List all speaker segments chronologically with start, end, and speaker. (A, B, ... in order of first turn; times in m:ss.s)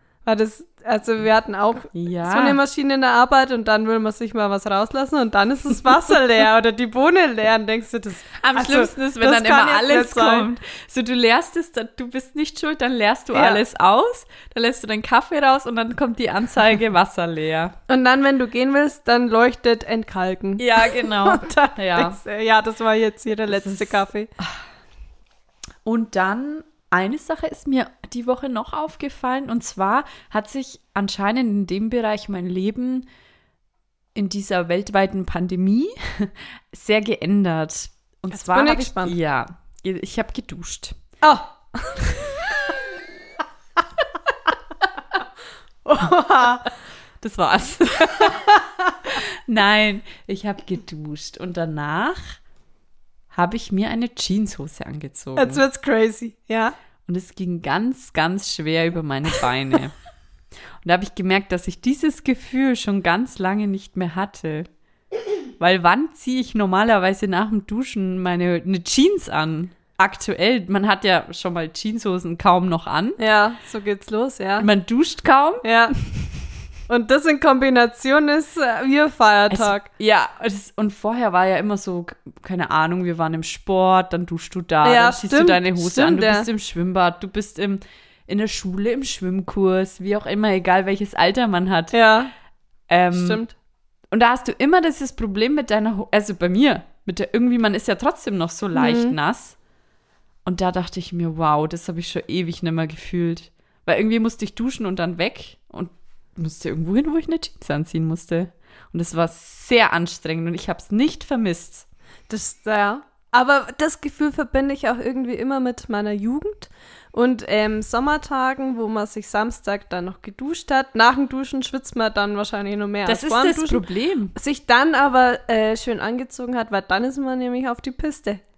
0:00.2-0:10.5 A
0:01.9-0:02.6 B
0:08.4-0:17.8 B
0:13.3-0:13.6 A
0:17.9-0:24.3 A
0:20.6-0:22.2 B
0:23.5-0:24.6 B
0:25.8-0:33.1 B
0:34.1-0:41.0 B
0:38.3-0:39.2 A
0:41.2-0:42.5 A
0:45.8-0:46.7 A
0:47.2-0:48.5 B
0:48.2-0:48.7 A
0:49.1-0:52.4 B
0:53.3-0:55.6 B
0:55.4-0:56.7 A
0:57.0-0:59.9 B
1:00.8-1:04.7 B
1:05.6-1:13.2 B
1:13.2-1:14.7 A
1:14.6-1:15.6 B
1:15.6-1:16.0 A
1:16.9-1:19.8 A
1:19.5-1:31.9 B
1:24.8-1:26.5 A
1:31.9-1:32.3 A
1:32.9-1:33.4 B
1:33.1-1:33.5 A
1:34.1-1:39.6 B
1:38.7-1:39.1 A
1:40.4-1:51.8 B
1:52.3-2:03.8 A
2:03.0-2:04.3 B
2:04.3-2:08.4 A